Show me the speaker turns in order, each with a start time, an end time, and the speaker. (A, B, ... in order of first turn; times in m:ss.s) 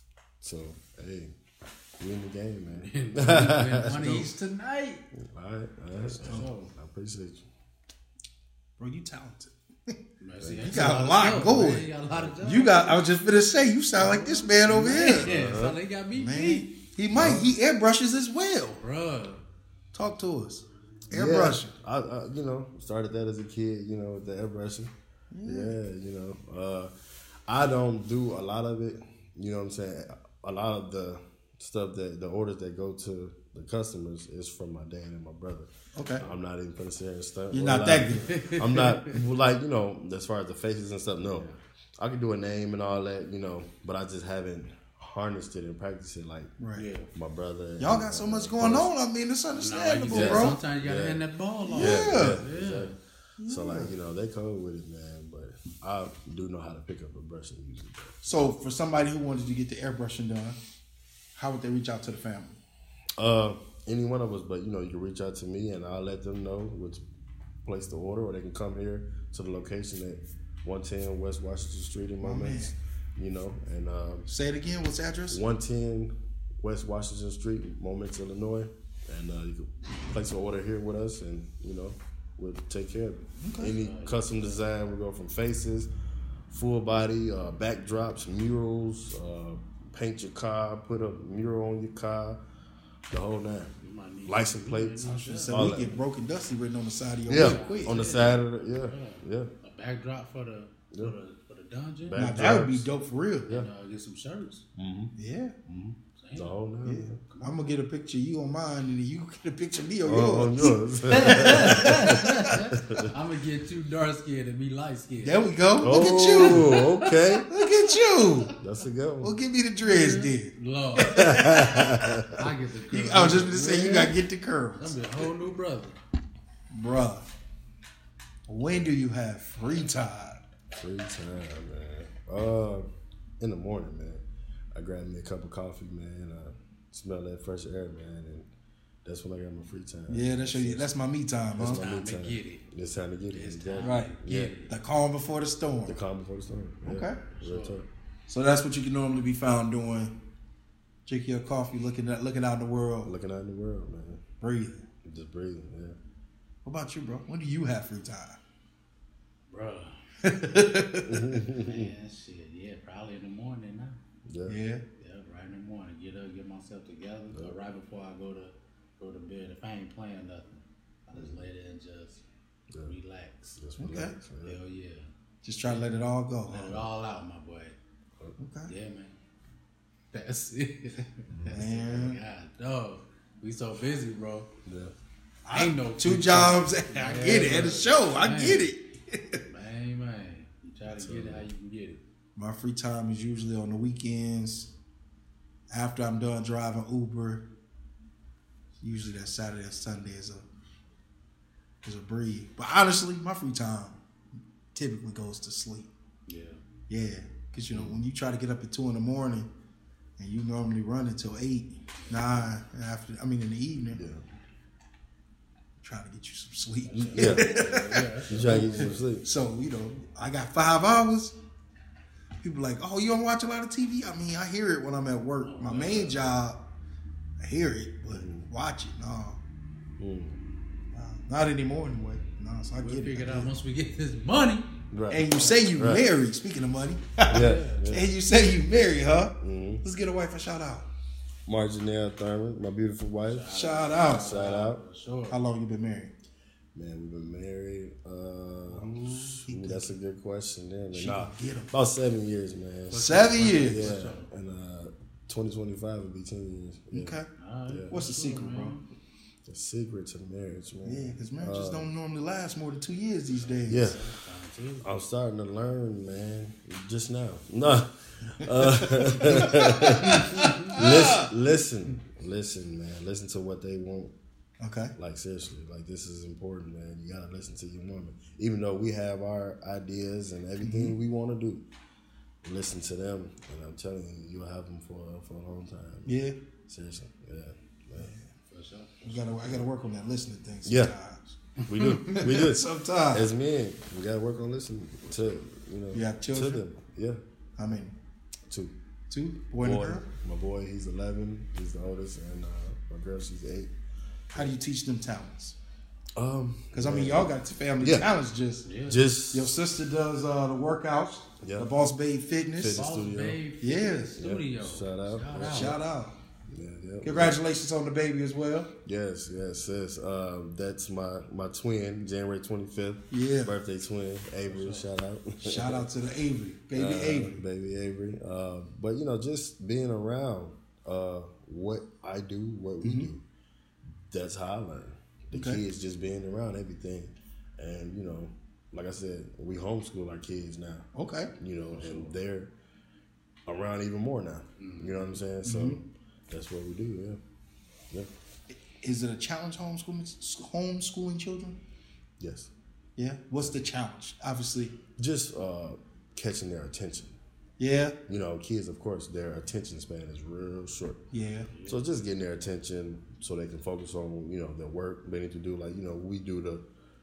0:00.4-0:01.3 A
0:02.0-0:04.0 A
0:02.8-0:05.0 B
0:03.9-0:04.3 C
0:05.2-0:07.4 A
0:06.0-0:06.7 B
0:06.2-0:06.5 C
0:08.8-0:09.9 C
0:10.2-0:13.0 B
0:10.4-0:10.8 A
0:10.6-0:11.9 C
0:12.1-0:12.4 A
0:12.4-0:15.3 C
0:14.0-0:16.7 B
0:14.7-0:15.8 A
0:16.1-0:18.8 C
0:17.1-0:17.5 A
0:18.8-0:19.4 B
0:19.9-0:21.7 C
0:21.1-0:24.9 A
0:25.3-0:25.8 C
0:25.4-0:26.9 A
0:27.5-0:46.5 A
0:35.9-0:36.2 C
0:37.5-0:38.3 C
0:38.3-0:39.2 B
0:46.6-0:46.8 C
0:46.7-0:47.1 B
0:47.1-0:48.9 A
0:47.8-0:50.6 C
0:49.5-0:53.0 B
0:50.1-0:58.3 A
0:51.7-0:52.4 C
0:53.4-0:53.9 C
0:58.2-1:00.6 C
1:01.3-1:02.6 C
1:03.2-1:07.0 A
1:07.6-1:14.3 A
1:12.2-1:12.7 C
1:14.3-1:15.4 C
1:15.3-1:25.9 A
1:23.4-1:23.7 C
1:23.7-1:24.6 B
1:26.5-1:32.4 A
1:33.1-1:33.7 A
1:33.8-1:35.8 B
1:34.2-1:36.0 A
1:35.0-1:38.0 C
1:37.3-1:39.5 A
1:37.3-1:42.4 B
1:42.0-1:42.9 A
1:42.1-1:43.6 C
1:43.5-1:44.6 B
1:44.8-1:45.1 A
1:45.1-1:45.5 C
1:45.7-1:47.2 A
1:46.2-1:46.5 B
1:46.8-1:52.4 C
1:47.3-1:47.6 B
1:50.0-1:53.1 A
1:51.1-1:57.2 B
1:55.2-1:56.8 C
1:55.8-1:57.4 A
1:57.5-1:58.5 C
1:57.9-1:58.3 B
1:58.6-1:59.3 A
1:59.2-2:01.9 C
1:59.8-2:04.1 B
2:01.1-2:02.5 A
2:02.9-2:05.0 C
2:04.8-2:06.0 B
2:06.7-2:07.2 C
2:08.5-2:10.4 C
2:10.8-2:12.9 A
2:13.4-2:18.5 A
2:19.0-2:20.9 A
2:20.1-2:21.8 C
2:21.5-2:24.5 A
2:21.6-2:22.6 B
2:23.3-2:24.7 B
2:23.8-2:24.1 C
2:24.7-2:26.0 C
2:25.8-2:27.8 A
2:26.8-2:27.2 C
2:27.3-2:27.8 B
2:28.3-2:30.1 C
2:31.0-2:33.1 C
2:33.0-2:34.2 A
2:34.4-2:34.8 C
2:35.0-2:36.0 A
2:36.6-2:38.4 C
2:39.5-2:40.0 B
2:40.2-2:41.3 C
2:41.1-2:41.9 A
2:41.4-2:44.0 B
2:44.3-2:44.6 A
2:44.5-2:44.8 C
2:45.0-2:52.2 B
2:51.1-2:51.4 A
2:52.8-2:53.6 B
2:53.6-2:54.6 A
2:53.8-2:54.1 C
2:54.4-2:55.1 B
2:55.4-2:56.8 C
2:55.6-2:55.9 B
2:56.5-2:57.8 B
2:58.4-2:58.7 C
2:58.7-2:59.1 B
3:00.1-3:04.5 B
3:01.3-3:01.6 A
3:01.5-3:02.2 C
3:04.6-3:04.9 A
3:05.4-3:09.4 C
3:05.5-3:08.7 B
3:09.5-3:12.0 B
3:10.9-3:11.5 A
3:12.4-3:14.7 C
3:15.7-3:17.4 C
3:18.8-3:20.4 C
3:21.8-3:24.0 C
3:24.7-3:25.9 C
3:26.3-3:26.6 B
3:26.9-3:29.5 C
3:27.7-3:28.0 A
3:30.2-3:34.0 C
3:33.9-3:34.2 A
3:35.8-3:41.3 C
3:36.9-3:37.7 A
3:37.0-3:39.0 B
3:38.3-3:39.2 A
3:42.4-3:46.6 C
3:45.4-3:46.3 B
3:47.4-3:49.4 C
3:48.1-3:48.5 A
3:50.0-3:50.4 A
3:50.9-3:53.5 C
3:52.8-3:54.7 B
3:54.9-3:56.0 A
3:55.1-4:00.9 C
3:57.3-3:57.9 B
3:57.3-3:58.1 A
3:59.4-3:59.8 A
4:01.5-4:03.5 A
4:03.3-4:05.4 B
4:03.5-4:04.4 C
4:04.0-4:04.8 A
4:05.3-4:06.1 C
4:06.7-4:17.9 A
4:08.7-4:09.9 C
4:10.9-4:11.7 C
4:12.9-4:14.3 B
4:12.9-4:13.9 C
4:16.9-4:17.3 C
4:17.4-4:18.8 B
4:17.9-4:18.8 C
4:19.4-4:21.9 A
4:20.8-4:23.8 C
4:23.4-4:24.8 B
4:23.7-4:24.1 A
4:24.8-4:34.1 A
4:28.3-4:31.3 C
4:30.2-4:30.5 B
4:34.6-4:34.9 C
4:35.0-4:41.6 A
4:40.6-4:41.0 C
4:42.4-4:46.2 A
4:46.0-4:46.4 C
4:46.7-4:48.1 A
4:48.0-4:48.2 C
4:48.5-4:49.2 B
4:49.0-4:51.3 C
4:50.6-4:50.9 A
4:51.7-4:57.2 A
4:51.7-4:52.1 B
4:52.0-4:53.3 C
4:55.9-4:56.6 C
4:57.6-4:57.9 C
4:58.5-4:58.7 A
4:59.1-5:00.0 C
4:59.6-5:03.7 A
5:04.3-5:05.6 C
5:06.2-5:08.1 A
5:06.7-5:08.7 C
5:08.6-5:09.0 B
5:08.9-5:09.5 A
5:09.3-5:12.8 C
5:11.4-5:11.7 A
5:12.6-5:13.4 A
5:12.7-5:15.8 B
5:13.6-5:14.2 C
5:14.2-5:15.8 A
5:15.4-5:16.2 C
5:16.5-5:17.4 A
5:17.0-5:18.7 C
5:18.8-5:25.9 A
5:23.1-5:23.5 C
5:24.4-5:24.8 B
5:25.4-5:27.4 C
5:26.7-5:33.2 A
5:32.8-5:33.1 C
5:34.1-5:42.5 A
5:35.3-5:35.6 C
5:40.9-5:41.3 C
5:41.7-5:42.2 B
5:43.4-5:47.2 A
5:44.6-5:45.2 B
5:45.4-5:45.8 C
5:48.5-5:51.6 C
5:52.2-5:52.5 A
5:53.0-5:54.7 C
5:55.0-5:57.2 A
5:57.6-5:58.0 C
5:58.1-6:01.0 A
6:01.1-6:01.5 C
6:01.5-6:01.9 B
6:01.6-6:06.6 A